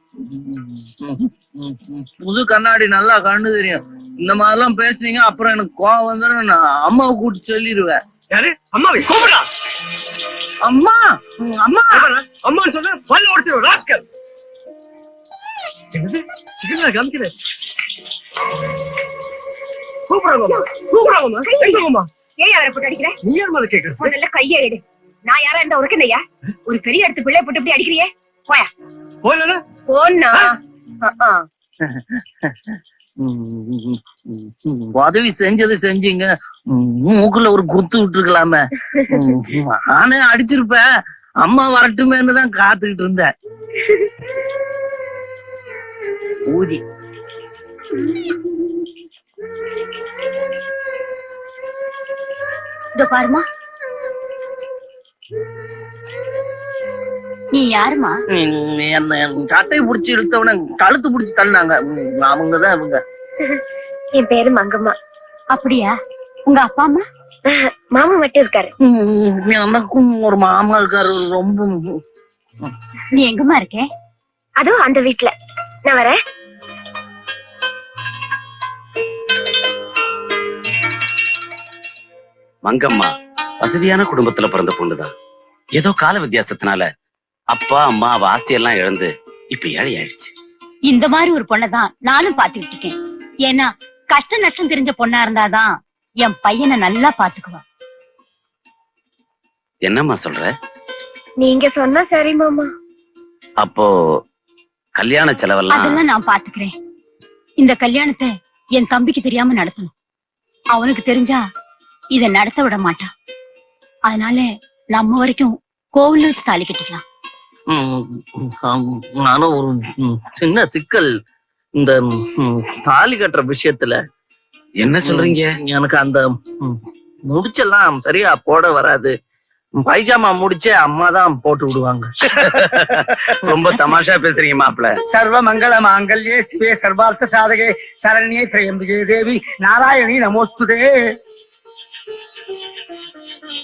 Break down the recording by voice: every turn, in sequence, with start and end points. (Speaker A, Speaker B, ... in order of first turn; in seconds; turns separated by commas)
Speaker A: 0.2-8.0, Speaker B: 8.3-9.4, Speaker A: 10.6-12.1, Speaker B: 11.9-14.0, Speaker B: 15.9-17.3, Speaker B: 20.1-22.1, Speaker C: 20.5-21.8, Speaker C: 22.4-23.1, Speaker B: 23.2-24.1, Speaker C: 24.1-28.7, Speaker B: 29.2-29.6, Speaker C: 29.9-31.4, Speaker A: 31.9-40.9, Speaker A: 41.4-43.3, Speaker A: 46.5-46.8, Speaker D: 53.0-53.4, Speaker D: 57.5-58.1, Speaker A: 58.3-63.0, Speaker C: 64.2-64.9, Speaker D: 65.5-65.9, Speaker D: 66.5-67.0, Speaker C: 67.5-68.7, Speaker A: 68.8-71.7, Speaker D: 73.1-73.8, Speaker C: 74.6-75.3, Speaker C: 75.9-76.2, Speaker E: 82.6-83.1, Speaker E: 83.6-85.1, Speaker E: 85.8-86.9, Speaker E: 87.5-90.3, Speaker D: 90.9-92.9, Speaker D: 93.5-95.7, Speaker D: 96.2-97.6, Speaker E: 99.8-100.5, Speaker C: 101.4-102.7, Speaker E: 103.6-103.9, Speaker E: 105.0-106.0, Speaker D: 105.7-106.7, Speaker D: 107.6-109.9, Speaker D: 110.7-111.4, Speaker D: 112.1-113.0, Speaker D: 114.1-114.4, Speaker D: 115.0-117.0, Speaker A: 117.7-121.1, Speaker A: 121.8-124.0, Speaker E: 124.8-125.5, Speaker A: 125.0-129.1, Speaker A: 129.8-132.1, Speaker E: 132.6-134.9, Speaker F: 135.1-140.9